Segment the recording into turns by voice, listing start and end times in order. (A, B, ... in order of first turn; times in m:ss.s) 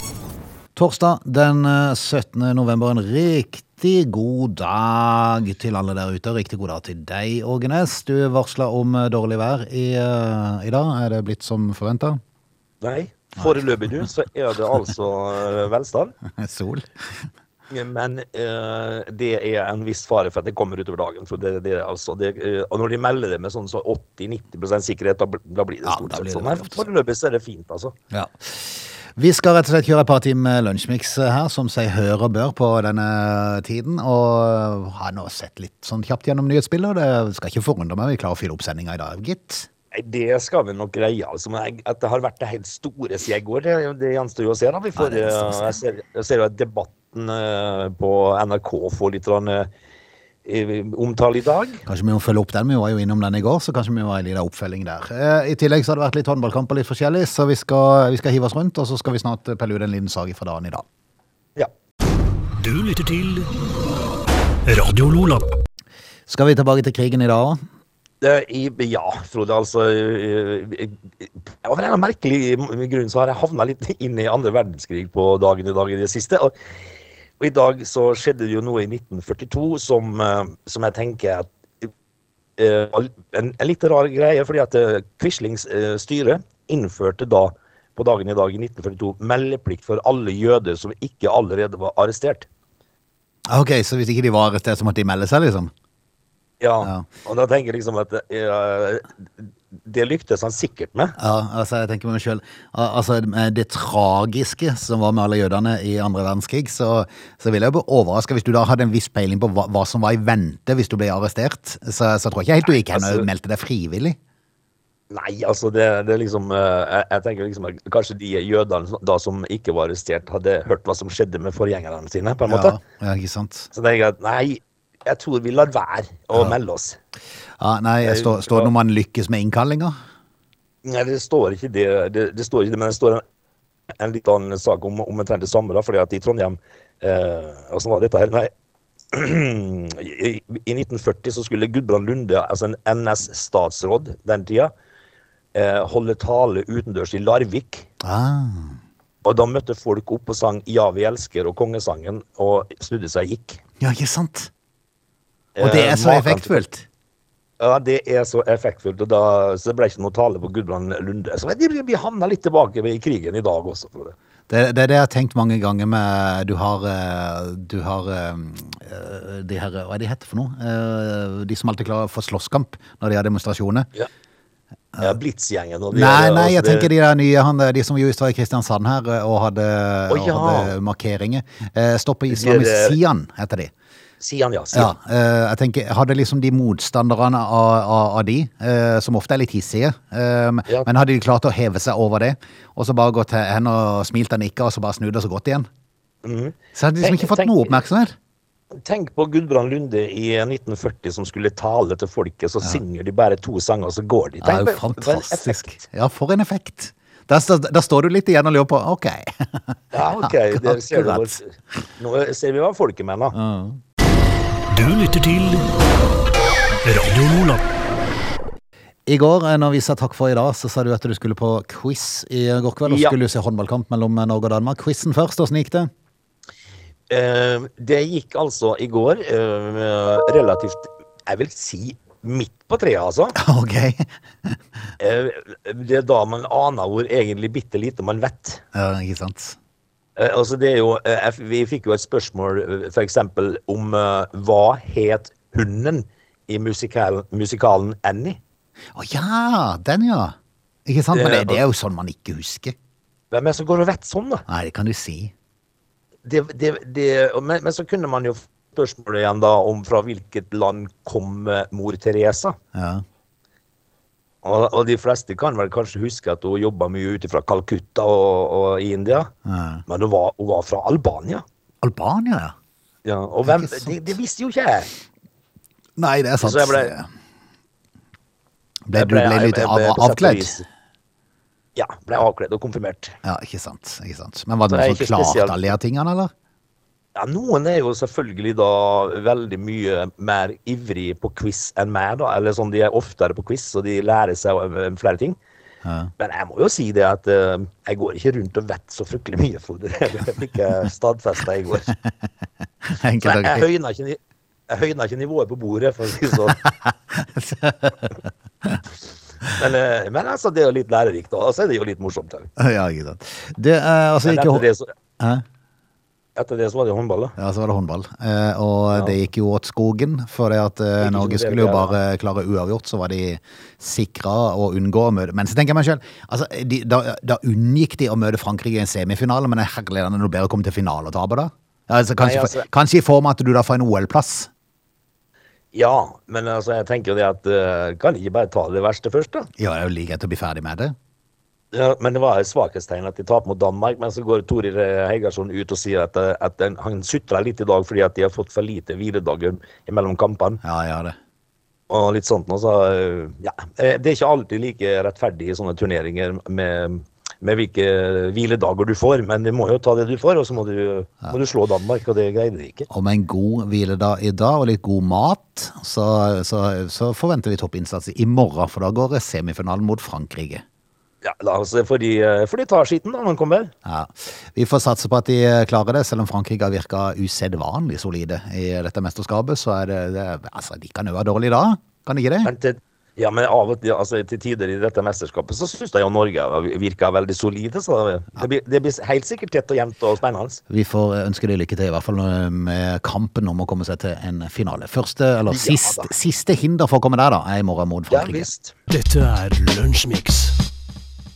0:00.7-0:12.2 A
0:12.8-0:16.1 B
0:16.2-0:17.3 A
0:17.7-0:27.9 B
0:25.8-0:26.9 A
0:28.1-0:39.7 A
0:39.9-0:49.7 B
0:45.0-0:45.8 A
0:50.4-0:51.8 B
0:51.8-1:00.8 A
1:02.6-1:03.5 C
1:04.6-1:05.5 C
1:06.3-1:07.6 A
1:08.2-1:16.5 B
1:17.4-1:21.9 B
1:22.6-1:32.5 B
1:33.5-1:35.7 A
1:36.6-1:41.1 B
1:36.8-1:37.1 A
1:41.2-1:54.2 A
1:52.7-1:53.3 B
1:55.1-2:02.8 B
2:02.5-2:03.7 A
2:03.7-2:07.0 B
2:07.6-2:10.0 A
2:08.0-2:08.7 B
2:10.8-2:13.2 B
2:14.0-2:18.5 B
2:19.1-2:24.7 B
2:25.5-2:27.9 B
2:28.0-2:28.8 A
2:29.2-2:33.6 B
2:33.8-2:34.5 A
2:35.6-2:36.6 B
2:35.6-2:36.8 A
2:37.6-2:44.1 B
2:44.5-2:53.9 A
2:55.0-2:56.9 B
2:55.9-3:03.7 A
3:00.1-3:00.7 B
3:02.3-3:03.0 B
3:04.2-3:04.9 B
3:04.7-3:15.7 A
3:16.2-3:17.7 B
3:16.7-3:18.1 A
3:18.7-3:25.7 B
3:24.4-3:31.4 A
3:29.9-3:33.3 B
3:33.3-3:33.8 A
3:34.7-3:35.7 C
3:36.8-3:37.6 C
3:39.1-3:45.9 A
3:42.8-3:43.2 B
3:47.1-3:53.3 B
3:53.4-3:54.6 A
3:55.0-3:58.6 B
3:58.7-3:59.6 A
4:00.2-4:08.4 B
4:08.9-4:12.7 A
4:11.1-4:11.6 B
4:13.3-4:14.4 B
4:14.5-4:15.3 A
4:16.2-4:22.6 B
4:22.7-4:23.0 A
4:24.4-4:29.3 B
4:29.4-4:29.8 A
4:29.9-4:31.4 B
4:31.8-4:32.5 A
4:33.0-4:34.9 B
4:33.4-4:34.1 A
4:36.0-4:37.1 A
4:36.4-4:36.9 B
4:38.9-4:40.6 A
4:38.9-4:40.6 B
4:41.8-4:43.2 B
4:43.2-4:46.3 A
4:44.7-4:45.6 B
4:47.1-4:55.4 B
4:55.8-4:56.1 A
4:56.2-5:01.9 B
5:02.9-5:03.6 A
5:03.2-5:06.6 B
5:06.4-5:08.8 A
5:09.6-5:12.5 B
5:12.6-5:14.6 A
5:14.2-5:14.9 B
5:15.2-5:15.4 A
5:16.4-5:17.3 B
5:17.4-5:34.5 A
5:21.0-5:22.0 B
5:32.2-5:32.6 B
5:35.7-5:39.5 B
5:39.6-5:40.9 A
5:41.7-5:50.6 B
5:50.6-5:51.2 A
5:51.9-6:02.9 B
6:02.9-6:10.6 A
6:11.2-6:13.7 B
6:13.8-6:22.5 A
6:22.4-6:30.6 B
6:30.7-6:38.5 A
6:35.5-6:36.1 B
6:38.1-6:38.7 B
6:38.9-6:40.6 C